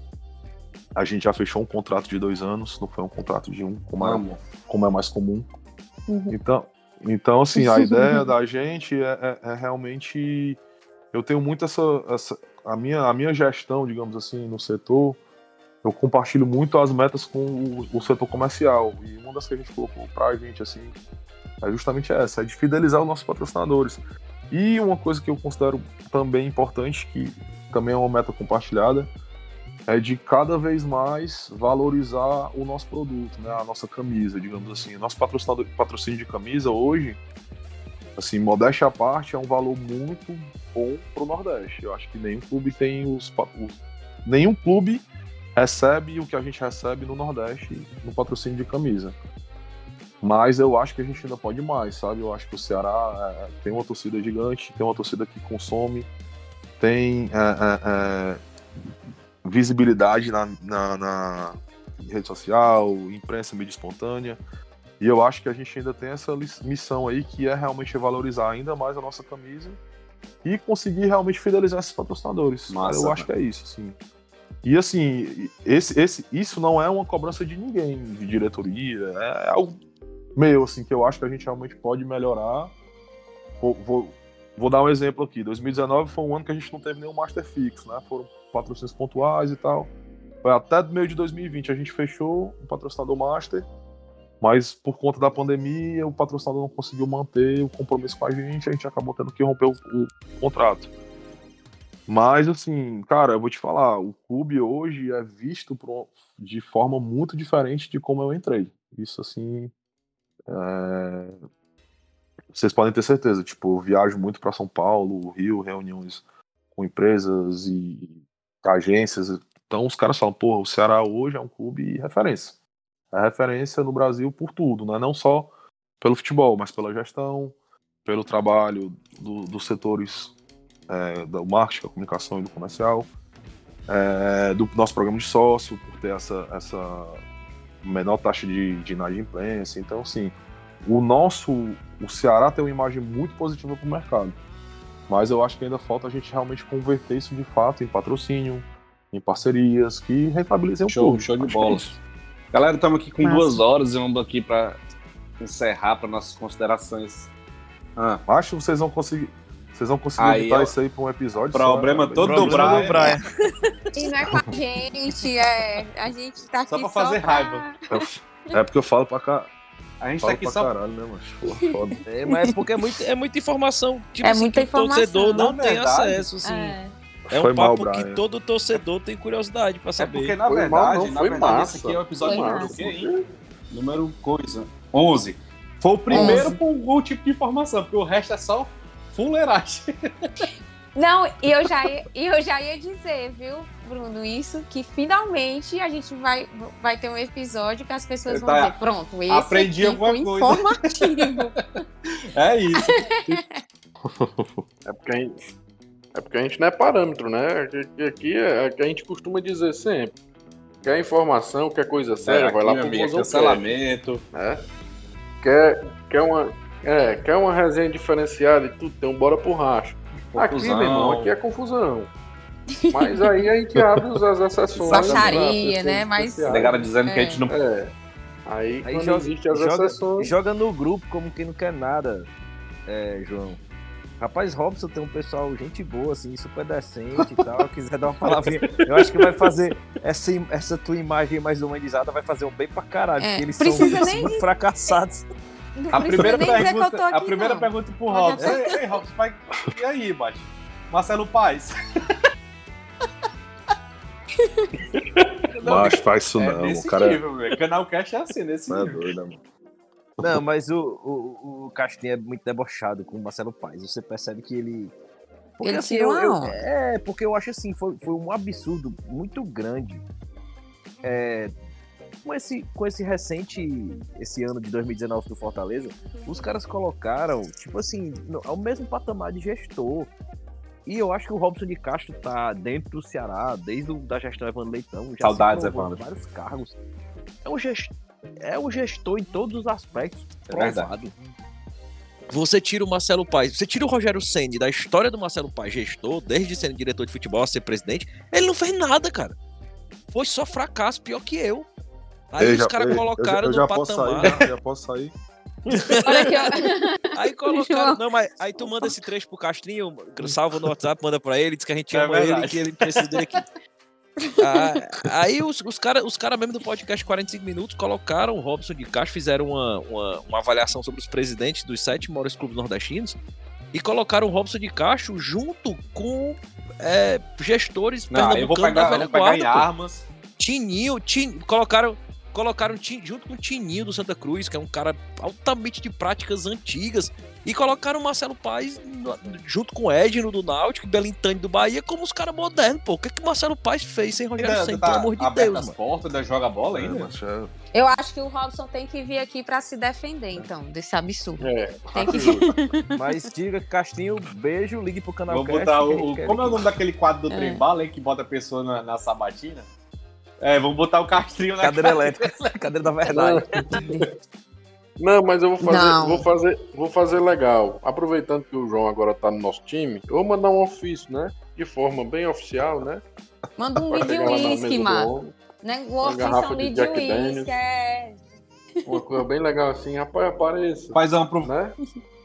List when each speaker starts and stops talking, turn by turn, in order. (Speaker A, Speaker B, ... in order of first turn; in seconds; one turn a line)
Speaker A: 0.9-5.5
Speaker B: 4.0-4.4
Speaker C: 6.1-6.3
Speaker A: 6.3-10.6
Speaker C: 7.5-8.3
Speaker A: 11.1-15.2
Speaker A: 15.8-20.9
Speaker A: 21.6-29.1
Speaker A: 29.9-37.2
Speaker A: 38.2-49.1
Speaker A: 50.2-56.1
Speaker A: 56.8-58.4
Speaker A: 59.4-64.4
Speaker A: 65.0-69.8
Speaker A: 70.4-74.0
Speaker B: 72.7-73.3
Speaker A: 74.6-79.8
Speaker A: 80.3-82.7
Speaker A: 83.6-89.9
Speaker A: 90.4-93.7
Speaker A: 94.4-100.9
Speaker A: 102.1-109.7
Speaker A: 110.5-111.4
Speaker A: 112.5-116.2
Speaker A: 116.7-122.5
Speaker A: 123.1-130.3
Speaker A: 130.9-133.1
Speaker A: 133.9-137.2
Speaker A: 137.8-144.3
Speaker A: 145.1-151.9
Speaker B: 150.9-151.9
Speaker B: 152.5-154.8
Speaker C: 153.2-153.6
Speaker B: 155.4-157.3
Speaker B: 158.0-158.2
Speaker A: 158.3-163.2
Speaker B: 160.2-160.7
Speaker B: 161.5-163.2
Speaker D: 162.2-163.2
Speaker C: 163.9-168.0
Speaker B: 166.7-167.6
Speaker A: 167.9-169.5
Speaker B: 170.0-170.7
Speaker A: 170.2-172.0
Speaker D: 172.1-176.8
Speaker C: 174.2-175.5
Speaker B: 175.3-176.3
Speaker C: 176.4-176.9
Speaker A: 177.3-178.2
Speaker D: 177.3-180.3
Speaker B: 180.0-183.1
Speaker E: 180.5-183.2
Speaker C: 182.2-182.7
Speaker B: 183.7-190.4
Speaker E: 186.1-186.4
Speaker C: 186.1-186.5
Speaker C: 190.9-201.6
Speaker B: 198.3-198.7
Speaker B: 199.3-201.3
Speaker B: 202.3-202.9
Speaker C: 202.8-203.6
Speaker A: 204.1-204.6
Speaker E: 204.9-205.4
Speaker E: 206.1-210.1
Speaker E: 210.8-213.7
Speaker B: 212.2-214.2
Speaker E: 214.3-214.6
Speaker E: 215.4-222.1
Speaker B: 220.3-221.3
Speaker C: 222.7-223.4
Speaker E: 222.9-226.9
Speaker B: 224.8-225.4
Speaker C: 224.8-227.4
Speaker B: 226.5-227.5
Speaker E: 227.5-227.9
Speaker E: 228.4-230.3
Speaker D: 228.8-232.3
Speaker D: 232.9-233.6
Speaker D: 234.2-245.2
Speaker E: 238.6-239.4
Speaker C: 243.2-244.4
Speaker C: 245.8-248.8
Speaker B: 245.9-251.7
Speaker B: 255.6-259.1
Speaker A: 255.6-257.2
Speaker A: 258.7-259.4
Speaker D: 260.2-264.9
Speaker D: 265.6-270.0
Speaker C: 265.6-266.6
Speaker D: 271.0-271.5
Speaker D: 272.2-280.1
Speaker D: 280.9-286.7
Speaker B: 285.2-286.0
Speaker D: 287.4-291.1
Speaker B: 290.5-290.9
Speaker D: 292.3-299.4
Speaker D: 300.1-301.7
Speaker D: 302.3-304.4
Speaker A: 302.4-305.1
Speaker A: 305.6-306.2
Speaker D: 305.7-306.4
Speaker C: 306.0-308.0
Speaker D: 307.1-313.4
Speaker C: 308.6-308.8
Speaker B: 311.9-313.4
Speaker C: 314.3-314.6
Speaker D: 314.4-323.2
Speaker D: 323.7-329.7
Speaker B: 328.1-330.1
Speaker D: 330.4-345.7
Speaker B: 344.4-347.1
Speaker A: 346.7-347.5
Speaker C: 347.7-353.0
Speaker E: 351.4-352.5
Speaker A: 352.0-352.5
Speaker D: 352.9-356.6
Speaker B: 355.3-359.7
Speaker C: 357.3-357.6
Speaker B: 360.4-362.3
Speaker D: 361.6-363.7
Speaker E: 363.1-364.1
Speaker E: 365.0-373.0
Speaker C: 365.6-366.2
Speaker C: 373.6-378.2
Speaker E: 373.9-375.4
Speaker E: 376.0-377.5
Speaker C: 378.8-379.2
Speaker E: 378.9-381.8
Speaker B: 380.9-381.5